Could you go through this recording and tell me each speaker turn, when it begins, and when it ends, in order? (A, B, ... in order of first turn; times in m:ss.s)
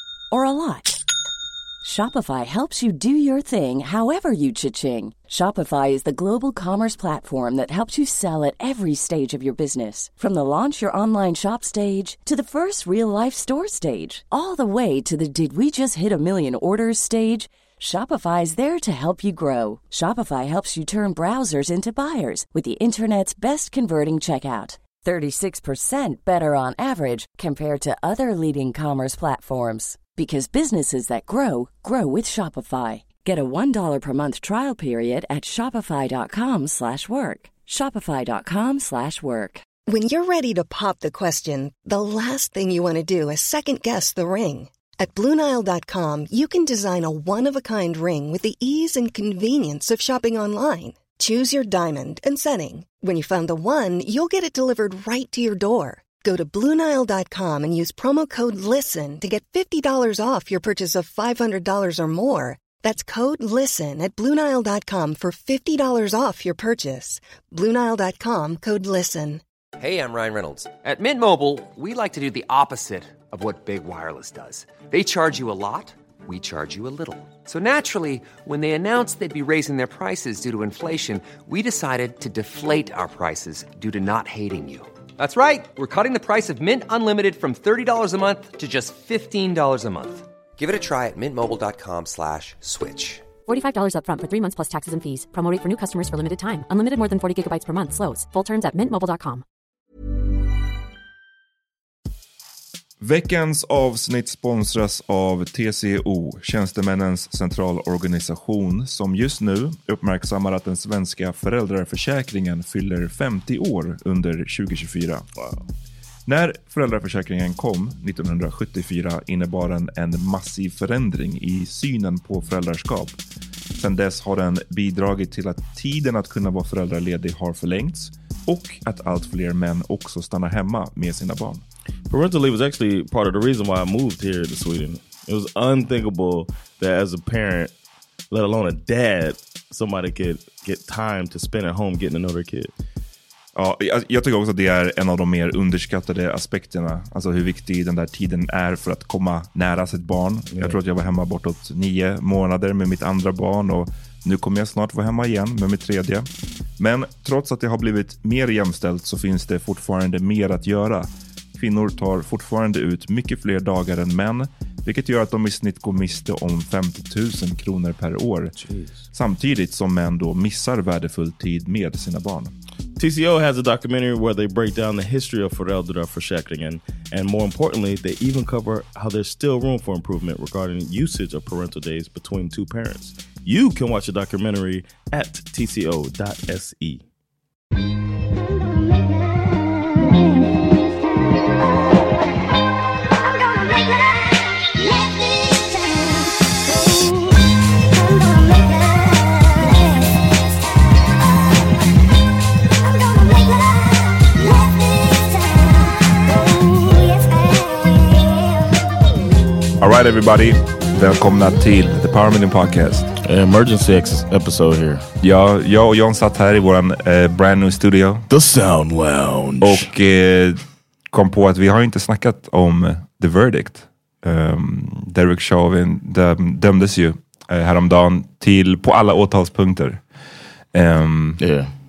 0:00.3-0:01.0 A
0:01.8-0:39.6 A
0:39.8-1:09.4 B
1:09.8-1:33.3 C
1:33.4-1:39.4 D
1:43.0-1:55.3 E
1:55.4-1:55.6 F
1:56.3-2:03.2 E
2:03.8-2:11.6 E
2:12.1-2:17.7 F
2:18.3-2:22.7 F
2:23.6-2:36.3 E
2:36.8-2:48.5 E
2:48.6-2:49.0 F
2:49.1-2:52.5 E
2:53.0-3:07.0 F
3:29.8-3:33.1 E
3:33.2-3:35.0 F
3:35.2-3:38.2 E
3:38.3-3:39.9 F
3:39.6-3:50.0 E
3:50.7-3:51.4 E
3:51.4-3:51.7 F